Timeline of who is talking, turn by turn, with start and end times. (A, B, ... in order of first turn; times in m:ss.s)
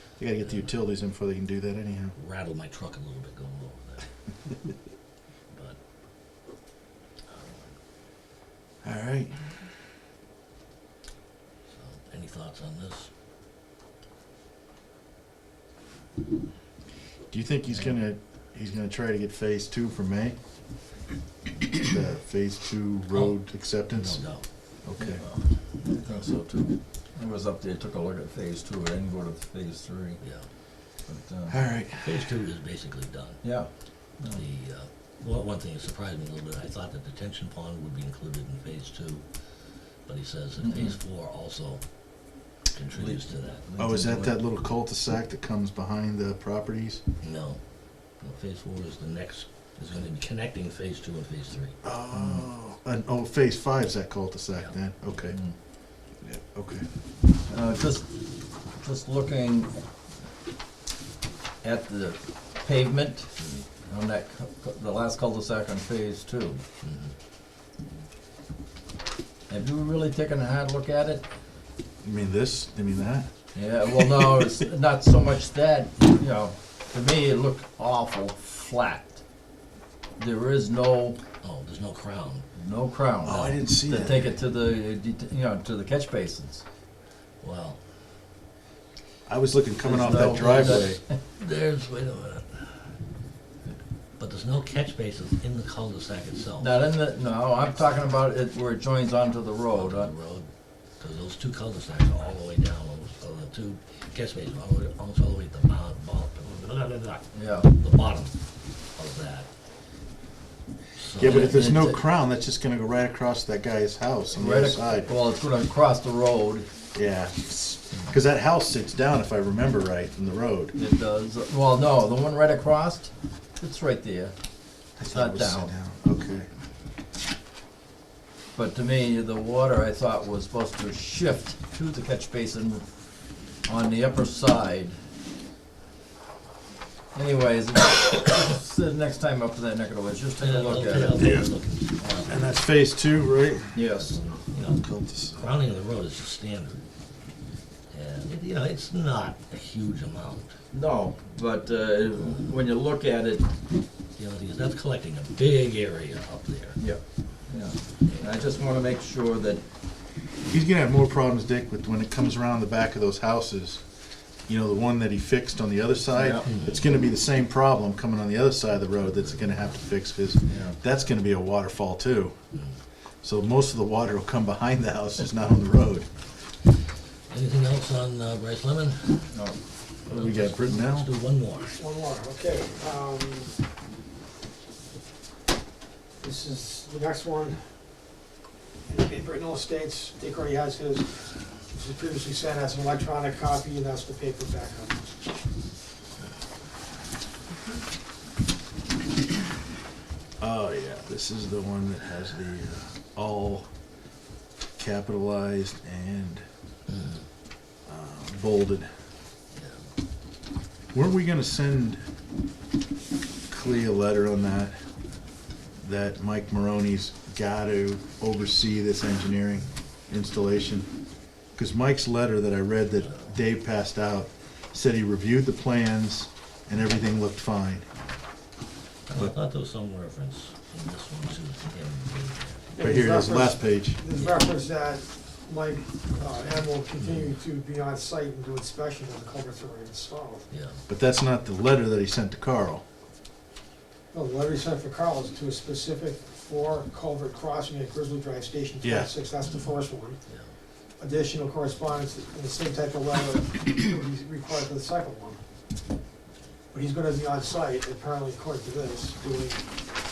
0:00.2-0:02.1 A
0:00.4-0:00.7 B
0:02.2-0:04.1 B
0:05.5-0:05.8 B
0:07.3-0:07.7 B
0:08.8-0:09.4 A
0:11.7-0:13.1 B
0:17.3-0:20.3 A
0:21.7-0:24.2 A
0:23.9-0:24.4 B
0:24.8-0:25.2 A
0:25.0-0:30.2 C
0:30.2-0:30.4 B
0:31.1-0:31.5 C
0:31.5-0:32.3 A
0:32.0-0:33.4 B
0:33.4-0:34.4 C
0:34.3-0:39.2 B
0:40.0-0:41.8 B
0:40.6-0:40.9 C
0:42.7-0:43.6 B
0:42.9-0:44.3 C
0:43.8-0:47.0 A
0:47.2-0:47.6 B
0:48.2-0:51.7 B
0:51.8-0:55.4 A
0:56.2-0:56.9 A
0:57.5-0:58.0 C
0:58.8-0:59.7 C
1:01.6-1:03.3 C
1:03.9-1:06.6 C
1:06.8-1:07.1 B
1:09.5-1:11.2 C
1:12.0-1:13.3 A
1:13.5-1:19.2 C
1:20.2-1:21.2 C
1:21.4-1:22.4 B
1:22.6-1:26.6 C
1:23.2-1:24.3 A
1:27.4-1:27.8 B
1:29.3-1:31.0 A
1:29.8-1:31.0 C
1:30.4-1:32.9 B
1:34.2-1:36.8 B
1:36.6-1:40.1 C
1:39.7-1:40.5 B
1:41.0-1:48.4 B
1:47.3-1:47.7 C
1:48.9-1:49.5 B
1:51.0-1:51.6 B
1:51.2-1:55.1 A
1:51.2-1:52.0 C
1:54.3-1:56.7 C
1:56.9-2:00.7 A
2:00.7-2:04.3 C
2:05.0-2:06.5 A
2:05.1-2:05.7 C
2:08.5-2:12.8 C
2:13.6-2:15.0 C
2:17.1-2:21.4 C
2:20.4-2:22.3 B
2:21.2-2:21.5 A
2:22.0-2:22.4 C
2:22.3-2:23.8 A
2:23.7-2:24.2 C
2:24.5-2:26.8 B
2:24.8-2:25.5 A
2:27.9-2:30.6 B
2:30.7-2:33.5 C
2:34.2-2:36.8 B
2:36.8-2:39.6 C
2:38.0-2:38.5 B
2:40.4-2:43.8 A
2:44.5-2:52.3 A
2:46.1-2:46.4 C
2:46.5-2:46.8 B
2:49.2-2:49.7 B
2:50.5-2:50.7 C
2:53.2-2:56.0 A
2:57.3-2:59.3 B
2:59.3-2:59.6 C
3:00.1-3:01.1 A
3:00.1-3:01.8 B
3:01.7-3:03.6 D
3:06.2-3:07.6 D
3:08.9-3:15.1 D
3:20.4-3:23.7 A
3:24.8-3:26.4 A
3:26.9-3:27.2 B
3:27.8-3:28.9 A
3:30.9-3:32.0 A
3:33.5-3:34.7 A
3:35.8-3:40.9 A
3:41.6-3:47.8 A
3:49.1-3:52.7 B
3:52.8-4:00.5 D
3:52.8-3:54.0 A
4:00.5-4:00.8 B
4:00.9-4:02.8 A
4:04.1-4:10.2 D
4:08.8-4:09.1 A
4:09.4-4:10.5 B
4:11.0-4:15.4 D
4:16.7-4:19.6 D